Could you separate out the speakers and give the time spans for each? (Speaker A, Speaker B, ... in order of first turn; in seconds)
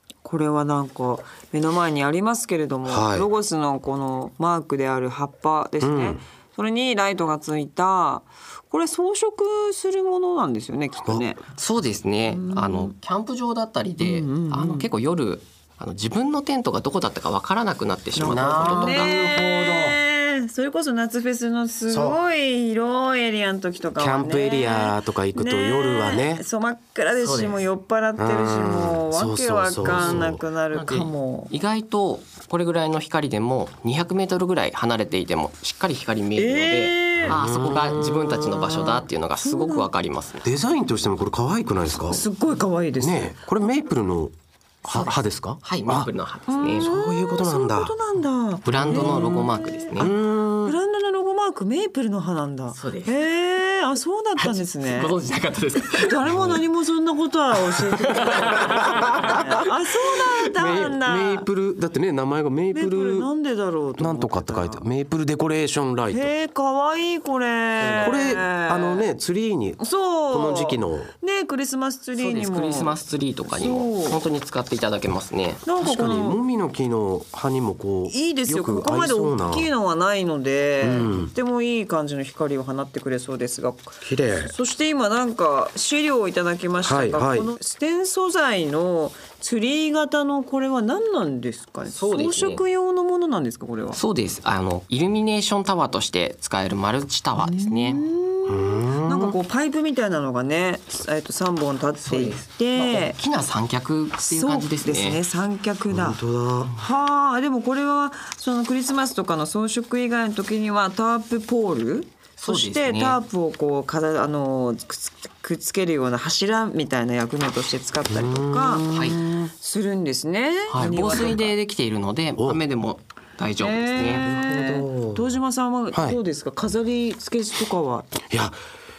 Speaker A: 0.2-11.4, 12.3-12.9, 14.0-14.9, 18.2-31.5, 36.4-37.4, 38.5-39.9, 42.1-43.4, 46.5-49.9, 50.6-55.1, 55.9-61.5, 62.7-64.8, 66.1-69.1, 69.8-73.0, 73.5-74.2, 75.7-76.4, 78.1-94.0, 97.4-103.2, 104.2-121.5, 123.6-128.1
Speaker B: 2.9-3.3, 5.8-6.2, 18.2-20.0, 21.9-22.2, 24.0-26.4, 28.2-30.4, 37.2-38.5, 40.4-42.2, 43.0-46.1, 46.7-48.0, 48.8-49.4, 50.0-50.8, 58.3-59.6, 60.5-63.3, 64.0-66.3, 68.0-71.1, 75.8-79.7, 80.8-81.3, 84.0-84.5, 86.8-87.5, 98.5-99.4, 105.9-106.8, 118.1-118.9, 124.2-125.3, 125.9-126.2, 128.3-128.6
Speaker C: 11.6-19.2, 27.1-27.6, 29.8-40.5, 45.6-46.9, 48.6-50.1, 52.7-53.2, 54.4-56.6, 57.7-59.4, 67.8-68.2, 72.2-75.6, 91.9-92.6, 94.0-98.1, 102.0-105.2, 112.4-113.2, 118.9-119.2, 120.7-124.3